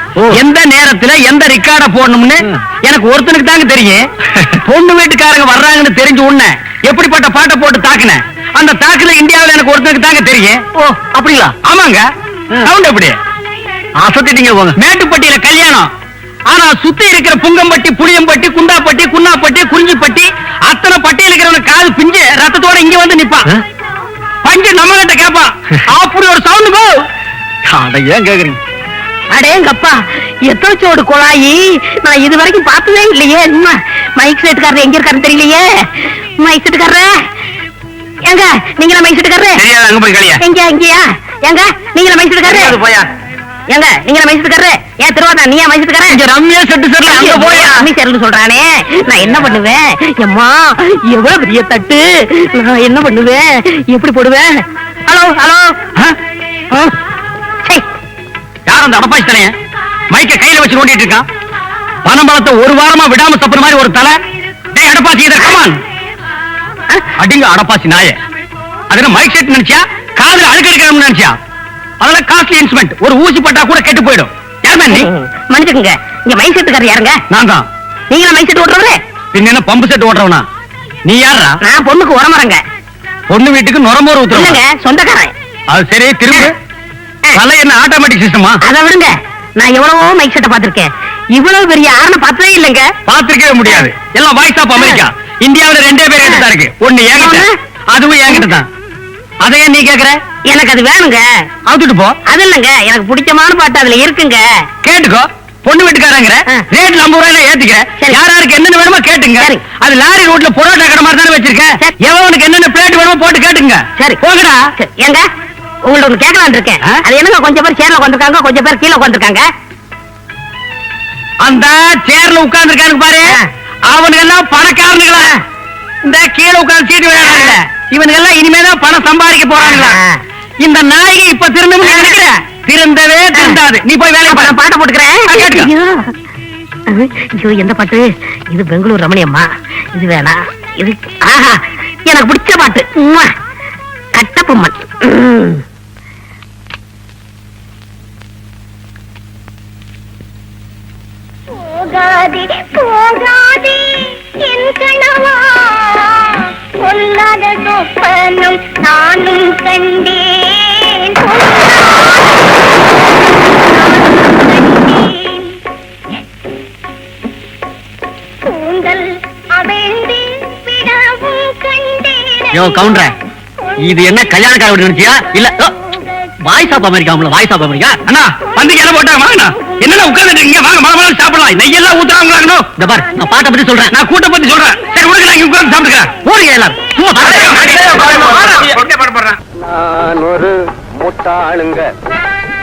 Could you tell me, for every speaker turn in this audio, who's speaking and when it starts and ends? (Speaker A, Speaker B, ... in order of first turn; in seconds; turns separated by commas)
Speaker A: 0.3-4.0, Speaker A: 4.6-10.6, Speaker B: 10.8-11.5, Speaker A: 11.6-12.1, Speaker A: 12.6-13.2, Speaker B: 14.0-14.7, Speaker A: 14.8-15.9, Speaker A: 16.5-23.5, Speaker A: 24.4-27.0, Speaker B: 27.6-28.6, Speaker C: 29.3-37.2, Speaker C: 38.2-39.6, Speaker A: 39.6-40.4, Speaker C: 40.4-42.8, Speaker A: 42.5-43.0, Speaker C: 43.7-46.2, Speaker A: 46.2-47.7, Speaker B: 46.5-47.0, Speaker C: 47.0-55.7, Speaker A: 58.7-59.5, Speaker A: 60.1-61.2, Speaker A: 62.0-64.2, Speaker A: 64.7-65.8, Speaker A: 67.2-68.2, Speaker A: 68.9-71.3, Speaker A: 72.0-75.1, Speaker C: 74.9-77.2, Speaker A: 77.3-77.7, Speaker C: 78.1-79.0, Speaker A: 79.3-80.4, Speaker A: 81.0-81.6, Speaker C: 81.6-82.6, Speaker A: 83.3-84.6, Speaker C: 84.3-85.3, Speaker A: 85.7-86.5, Speaker A: 87.3-88.6, Speaker C: 88.6-92.9, Speaker A: 93.0-98.7, Speaker C: 94.8-95.0, Speaker C: 97.1-97.5, Speaker A: 99.4-100.2, Speaker C: 100.5-101.3, Speaker A: 101.7-102.2, Speaker C: 102.3-104.5, Speaker A: 104.8-114.6, Speaker C: 114.8-115.2, Speaker C: 115.8-119.5, Speaker A: 121.4-123.4, Speaker A: 123.9-125.3, Speaker A: 126.0-130.0, Speaker C: 127.2-127.6, Speaker C: 129.6-130.2, Speaker A: 130.6-134.6, Speaker C: 131.8-132.2, Speaker C: 134.3-136.1, Speaker A: 135.3-135.7, Speaker C: 136.9-143.3, Speaker C: 144.1-145.6, Speaker D: 151.6-162.6, Speaker D: 163.4-165.6, Speaker D: 168.4-172.6, Speaker B: 172.5-173.1, Speaker B: 173.8-175.7, Speaker B: 176.4-178.0, Speaker A: 178.1-182.7, Speaker B: 182.8-183.9, Speaker A: 183.9-189.3, Speaker B: 187.1-188.8, Speaker E: 189.7-191.9